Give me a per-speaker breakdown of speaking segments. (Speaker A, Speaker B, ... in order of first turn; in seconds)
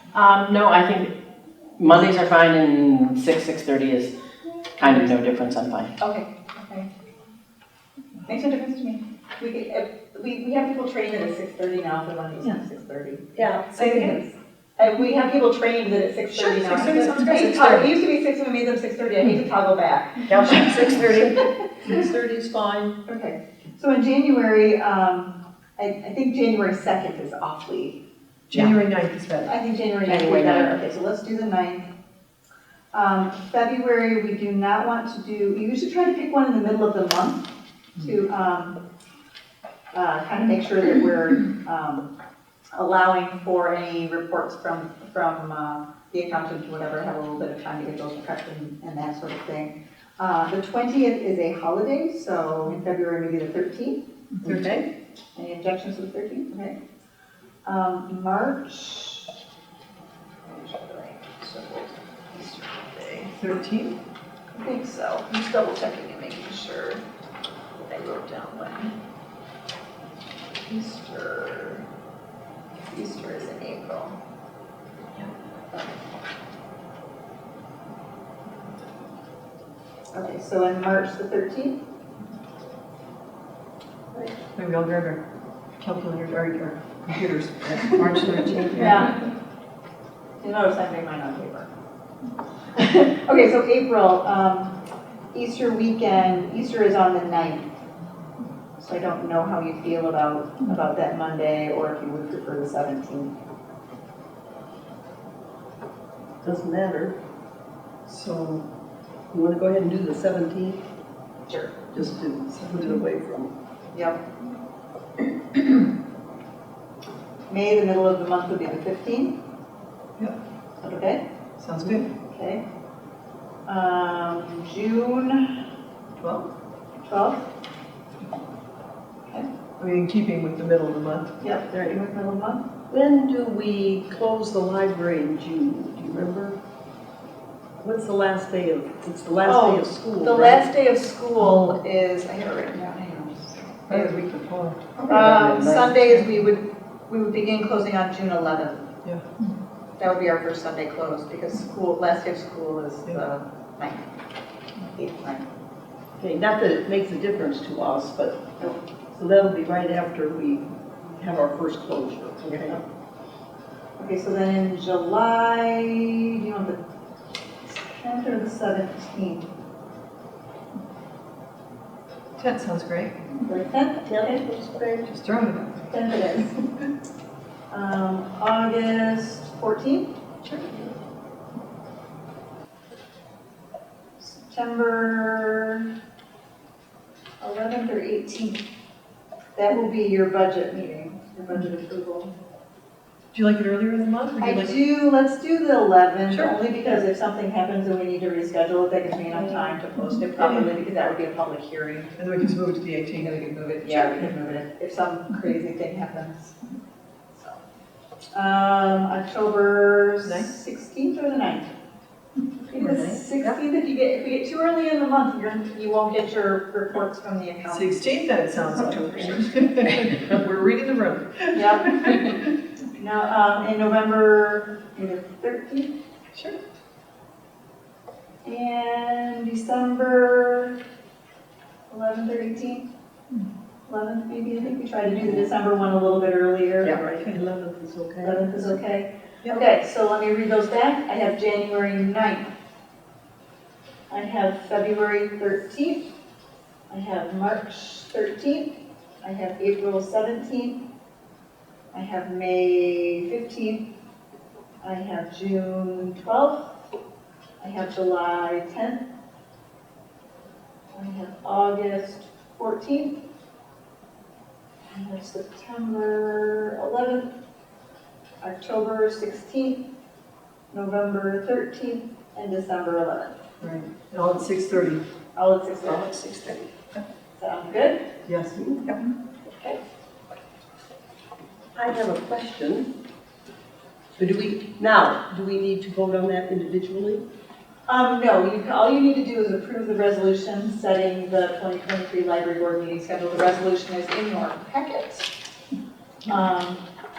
Speaker A: 0.1-1.1, 1.8-4.1, 4.8-5.9, 30.1-30.8, 88.4-88.8, 145.1-145.9
Speaker B: 6.0-6.9, 8.3-21.2, 23.1-28.0, 29.4-31.9, 32.9-38.8, 39.9-42.1, 42.7-54.0, 55.4-56.8, 57.6-59.3, 60.5-63.3, 64.5-67.0, 67.8-69.0, 70.7-71.8, 72.9-74.2, 80.1-81.8, 88.7-89.2, 90.4-91.7, 92.8-94.8, 95.3-97.7, 98.8-103.3, 111.5-111.8, 113.9-114.2, 117.5-119.4, 120.8-121.2, 122.0-122.6, 123.7-125.6, 127.0-127.4, 131.4-132.7, 139.4-144.2, 145.1-148.9, 150.0-154.1, 154.8-155.4, 164.0-166.8, 167.7-169.5, 173.4-174.5, 175.9-176.6, 177.7-180.1, 184.2-185.9, 187.4-188.7, 189.6-192.3, 194.4-202.1, 203.2-206.6, 207.3-207.6, 208.3-211.7, 212.7-218.0, 218.8-219.5, 221.5-222.2, 222.9-225.9, 228.4-230.8, 231.9-232.9, 233.9-237.0, 238.2-242.5, 244.1-246.1, 246.9-250.8, 251.9-253.9, 254.8-256.8, 257.6-259.1, 260.9-263.2, 264.9-267.3, 268.4-269.8, 270.7-273.4, 275.4-276.4, 277.4-278.0, 287.9-295.3, 296.2-296.8
Speaker C: 13.4-14.2, 20.3-23.0, 54.5-54.9, 106.4-107.2, 109.3-110.8, 111.9-113.5, 131.7-132.0, 132.9-136.6, 137.8-140.6, 156.2-158.6, 159.1-162.8, 174.1-175.1, 236.8-238.8, 278.6-278.9, 281.8-282.9, 284.2-287.2
Speaker D: 16.3-17.9, 28.5-29.5, 54.4-54.8, 63.4-64.0, 84.5-85.2, 85.8-89.1, 108.1-108.7, 112.5-113.0, 121.6-122.1, 126.2-126.5, 129.8-131.3, 143.9-144.9, 172.4-173.2, 175.1-175.7, 180.4-180.8, 193.3-194.8, 196.3-196.6, 200.3-200.7, 202.2-203.4, 212.7-213.6, 217.7-222.6, 273.6-275.0, 278.2-278.6